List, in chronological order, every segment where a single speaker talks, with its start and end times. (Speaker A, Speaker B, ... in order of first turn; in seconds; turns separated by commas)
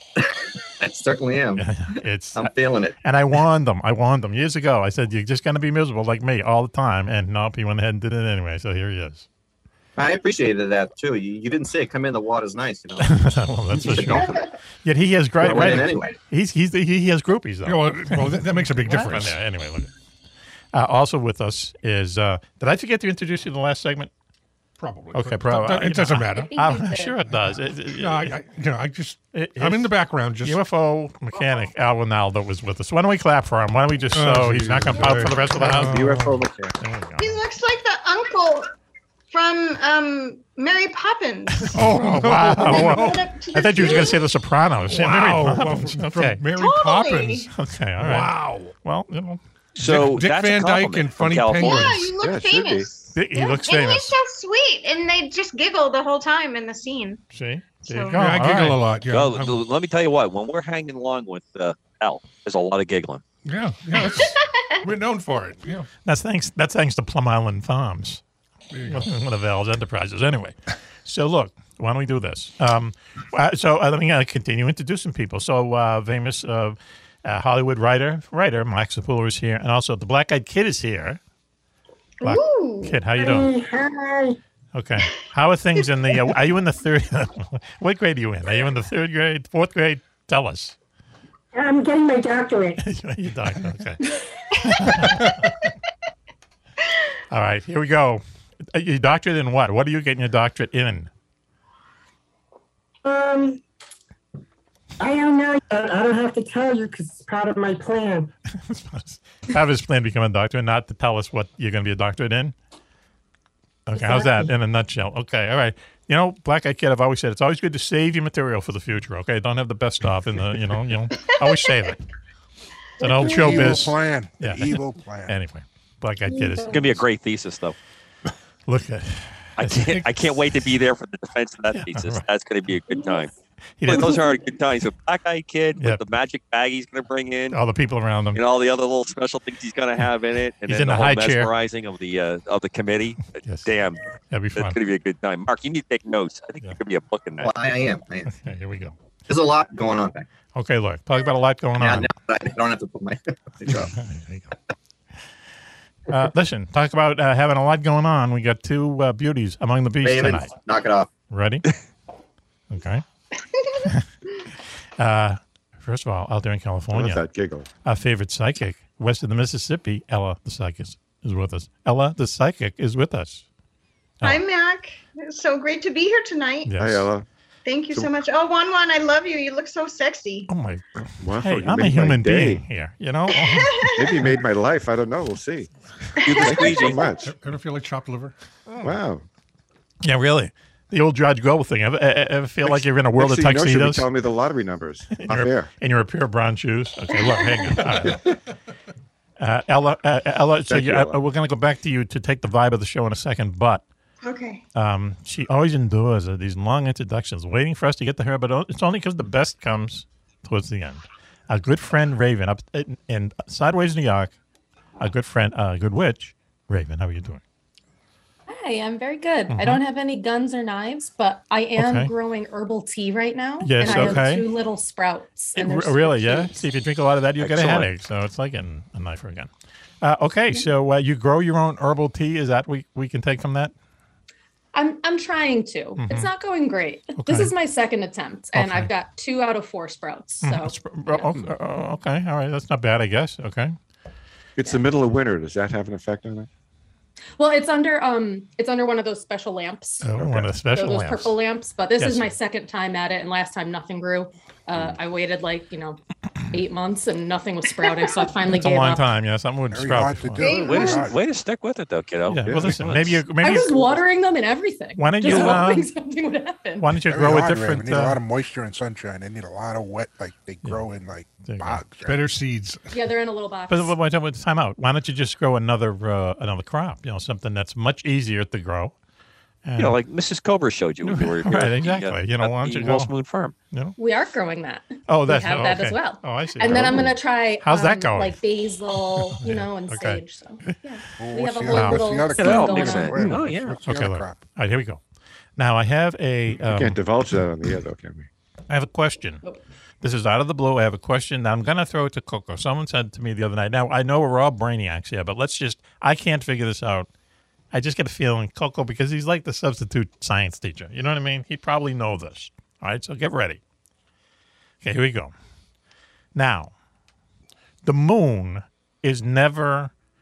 Speaker A: 0.2-3.0, Speaker B: 1.6-2.5, Speaker B: 3.0-9.3, Speaker A: 10.0-14.5, Speaker B: 13.0-19.9, Speaker A: 15.4-16.2, Speaker C: 17.6-19.4, Speaker B: 20.7-24.1, Speaker C: 24.8-26.5, Speaker B: 25.1-28.4, Speaker D: 26.3-27.2, Speaker C: 28.0-30.6, Speaker B: 29.3-37.4, Speaker C: 34.1-36.2, Speaker E: 35.7-36.7, Speaker F: 37.2-38.7, Speaker F: 39.3-41.9, Speaker B: 41.6-46.4, Speaker C: 41.7-43.2, Speaker F: 42.5-44.3, Speaker C: 44.9-47.5, Speaker F: 46.5-47.5, Speaker B: 47.5-49.4, Speaker C: 48.0-48.8, Speaker C: 49.8-52.1, Speaker G: 49.8-51.9, Speaker F: 51.5-57.2, Speaker E: 52.2-52.9, Speaker B: 53.1-54.2, Speaker B: 57.3-58.8, Speaker F: 57.8-58.2, Speaker C: 58.2-59.6, Speaker G: 59.1-63.2, Speaker C: 63.5-65.9, Speaker F: 64.1-64.8, Speaker B: 66.0-68.2, Speaker C: 68.7-69.1, Speaker B: 68.9-81.2, Speaker F: 82.2-83.1, Speaker B: 82.2-83.5, Speaker H: 83.2-84.4, Speaker B: 84.7-90.8, Speaker H: 91.5-92.8, Speaker B: 92.8-94.1, Speaker B: 94.6-95.6, Speaker B: 97.3-101.1, Speaker H: 103.0-103.6, Speaker H: 105.0-108.3, Speaker B: 108.5-112.5, Speaker B: 113.9-122.0, Speaker H: 114.0-114.5, Speaker F: 121.3-121.7, Speaker B: 123.0-127.0, Speaker H: 123.0-123.8, Speaker I: 123.3-125.4, Speaker H: 126.3-126.8, Speaker G: 126.7-127.8, Speaker B: 128.7-130.0, Speaker G: 129.6-133.3, Speaker B: 131.7-132.2, Speaker H: 132.9-133.2, Speaker B: 133.8-134.2, Speaker G: 133.9-137.6, Speaker B: 137.5-138.4, Speaker G: 138.3-144.0, Speaker B: 140.7-141.5, Speaker B: 143.4-143.7, Speaker B: 144.3-144.8, Speaker G: 144.6-147.5, Speaker A: 147.4-148.3, Speaker B: 148.3-148.9, Speaker A: 149.3-150.3, Speaker B: 150.6-152.1, Speaker A: 151.8-154.0, Speaker B: 153.7-154.5, Speaker B: 156.1-160.5, Speaker A: 160.0-161.1, Speaker B: 161.3-161.7, Speaker B: 162.7-163.0, Speaker B: 165.0-167.2, Speaker E: 166.9-167.7, Speaker B: 167.8-173.4, Speaker F: 174.2-176.8, Speaker B: 176.7-177.1, Speaker E: 176.8-177.2, Speaker F: 177.7-180.5, Speaker B: 180.5-183.9, Speaker E: 181.2-182.6, Speaker F: 183.3-184.3, Speaker E: 183.9-187.3, Speaker G: 186.2-187.1, Speaker F: 186.2-187.0, Speaker C: 187.2-188.3, Speaker E: 188.8-189.2, Speaker B: 190.0-194.1, Speaker E: 192.6-195.7, Speaker B: 195.1-198.3, Speaker E: 198.0-198.3, Speaker B: 199.4-203.8, Speaker E: 200.7-201.2, Speaker F: 204.2-204.6, Speaker B: 204.8-214.3, Speaker B: 215.0-217.4, Speaker D: 218.5-226.7, Speaker B: 219.5-219.8, Speaker B: 221.8-222.1, Speaker B: 223.6-224.5, Speaker G: 223.8-224.2, Speaker B: 225.6-229.5, Speaker G: 227.4-227.9, Speaker B: 230.0-233.7, Speaker D: 234.7-241.3, Speaker B: 236.0-236.3, Speaker B: 237.2-237.5, Speaker B: 238.5-238.9, Speaker B: 240.4-243.8, Speaker E: 244.6-246.5, Speaker D: 247.4-250.1, Speaker B: 250.0-251.3, Speaker E: 250.2-250.5, Speaker D: 250.7-256.0, Speaker B: 252.0-252.3, Speaker D: 256.5-259.0, Speaker B: 258.5-260.5, Speaker I: 259.7-261.2, Speaker F: 260.4-261.1, Speaker G: 260.5-263.2, Speaker B: 262.3-263.9, Speaker E: 262.4-263.0, Speaker D: 263.4-266.9, Speaker B: 265.0-265.9, Speaker G: 265.3-265.6, Speaker B: 266.8-268.2, Speaker I: 267.1-272.2, Speaker B: 271.4-271.8, Speaker C: 272.1-272.9, Speaker D: 272.9-273.9, Speaker B: 273.7-278.9, Speaker B: 279.6-280.0, Speaker G: 279.8-283.5, Speaker B: 281.0-283.1, Speaker D: 284.0-293.2, Speaker B: 285.1-288.4, Speaker E: 286.6-287.1, Speaker B: 289.3-290.7, Speaker I: 291.2-294.4, Speaker B: 291.7-292.2, Speaker G: 292.4-293.8, Speaker B: 293.8-295.0, Speaker B: 295.6-297.0, Speaker E: 296.6-298.3, Speaker B: 298.7-299.4, Speaker B: 300.0-307.1, Speaker B: 307.7-313.6, Speaker B: 314.8-315.3, Speaker B: 316.4-316.7, Speaker B: 317.8-319.9